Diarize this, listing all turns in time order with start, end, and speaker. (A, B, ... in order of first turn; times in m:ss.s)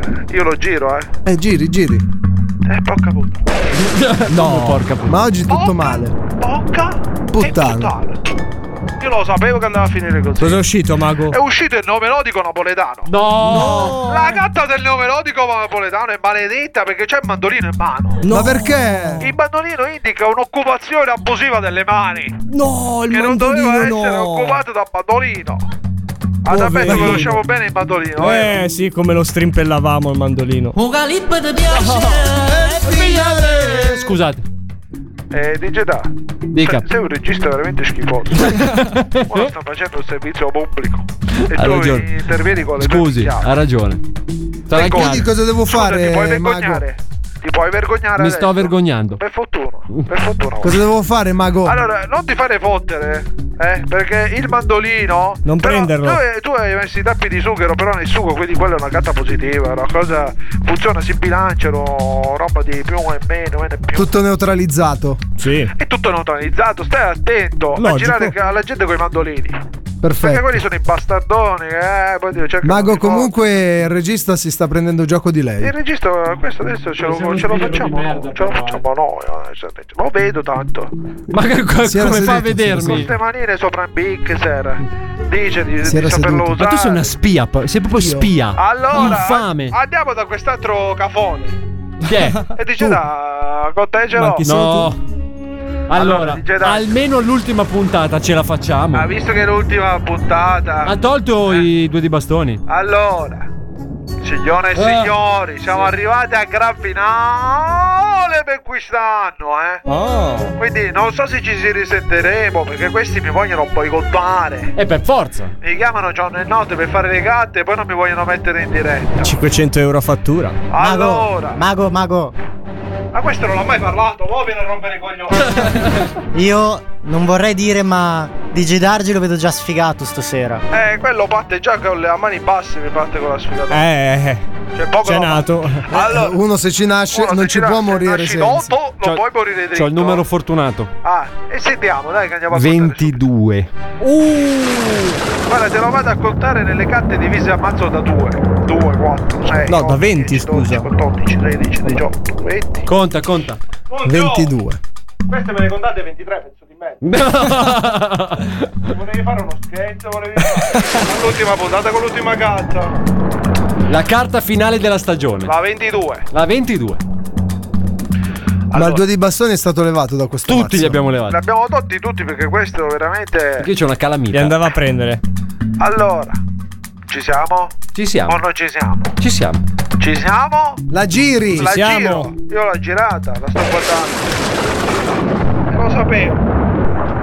0:00.3-0:01.1 A
0:01.2-0:02.0 B
0:02.6-0:03.4 A
0:03.7-0:05.2 C
0:04.4-0:04.7 D
0:05.0-0:06.1 B
0:05.5-0:08.2 A
0:07.3-0:07.9 B
0:09.0-0:10.7 A
0:10.4-0:11.4 D
0:11.3-0:18.2 A
0:13.1-0:14.0 C
0:13.4-0:14.4 D
0:18.2-0:19.3 D
0:18.3-0:19.3 B
0:19.2-0:22.4 A
0:22.5-0:24.6 D
0:23.1-0:25.6 A
0:26.4-0:28.6 A
0:26.5-0:27.4 D
0:28.2-0:30.8 D
0:31.8-0:32.3 D
0:32.4-0:34.0 B
0:32.6-0:34.4 C
0:35.3-0:38.7 A
0:36.5-0:36.8 C
0:38.4-0:39.4 C
0:39.3-0:43.5 A
0:41.5-0:42.1 C
0:42.8-0:44.0 C
0:44.7-0:45.3 C
0:44.7-0:46.8 B
0:44.7-0:50.8 A
0:48.2-0:49.2 C
0:50.6-0:51.8 B
0:51.6-1:04.1 A
0:55.4-0:56.2 D
1:03.9-1:05.2 B
1:05.4-1:05.7 D
1:05.8-1:09.6 A
1:07.8-1:08.4 D
1:10.0-1:10.6 B
1:10.2-1:13.3 A
1:12.6-1:15.7 B
1:15.6-1:20.9 A
1:17.0-1:18.8 C
1:21.3-1:23.1 C
1:21.8-1:22.9 B
1:22.8-1:27.1 A
1:25.8-1:26.6 B
1:26.6-1:29.7 C
1:28.0-1:28.3 B
1:28.5-1:31.5 A
1:32.0-1:32.4 C
1:32.5-1:34.5 A
1:34.2-1:34.9 D
1:34.4-1:35.0 C
1:35.9-1:39.1 C
1:35.9-1:36.9 A
1:38.9-1:41.7 A
1:40.8-1:42.6 C
1:42.7-1:43.5 A
1:44.2-1:49.8 A
1:44.8-1:45.1 C
1:49.8-1:50.5 D
1:50.4-1:54.7 A
1:54.7-1:55.5 C
1:55.6-1:59.4 A
1:59.2-2:00.6 D
2:00.7-2:01.6 A
2:00.8-2:02.3 E
2:03.1-2:05.6 A
2:05.6-2:06.0 C
2:06.3-2:10.6 E
2:10.7-2:13.8 A
2:13.7-2:14.4 D
2:14.7-2:16.4 A
2:15.0-2:16.1 D
2:16.0-2:18.7 B
2:17.1-2:20.2 A
2:19.7-2:20.9 C
2:21.0-2:23.2 A
2:22.5-2:23.7 C
2:24.0-2:25.2 D
2:25.5-2:32.9 A
2:29.7-2:30.9 D
2:32.9-2:33.6 C
2:33.9-2:34.5 A
2:34.0-2:34.8 B
2:35.3-2:37.0 A
2:37.0-2:38.7 C
2:38.9-2:42.9 A
2:43.9-2:45.5 C
2:45.4-2:46.2 A
2:46.3-2:47.0 C
2:48.7-2:49.0 A
2:48.7-2:51.0 B
2:50.5-2:51.4 C
2:51.3-2:53.7 A
2:53.6-2:54.6 C
2:54.3-2:55.2 D
2:55.8-2:56.4 A
2:57.1-2:59.1 A
2:57.9-2:58.4 C
2:59.2-2:59.6 C
3:00.0-3:00.8 A
3:00.9-3:01.7 B
3:01.5-3:02.3 D
3:01.5-3:04.4 A
3:05.7-3:06.4 A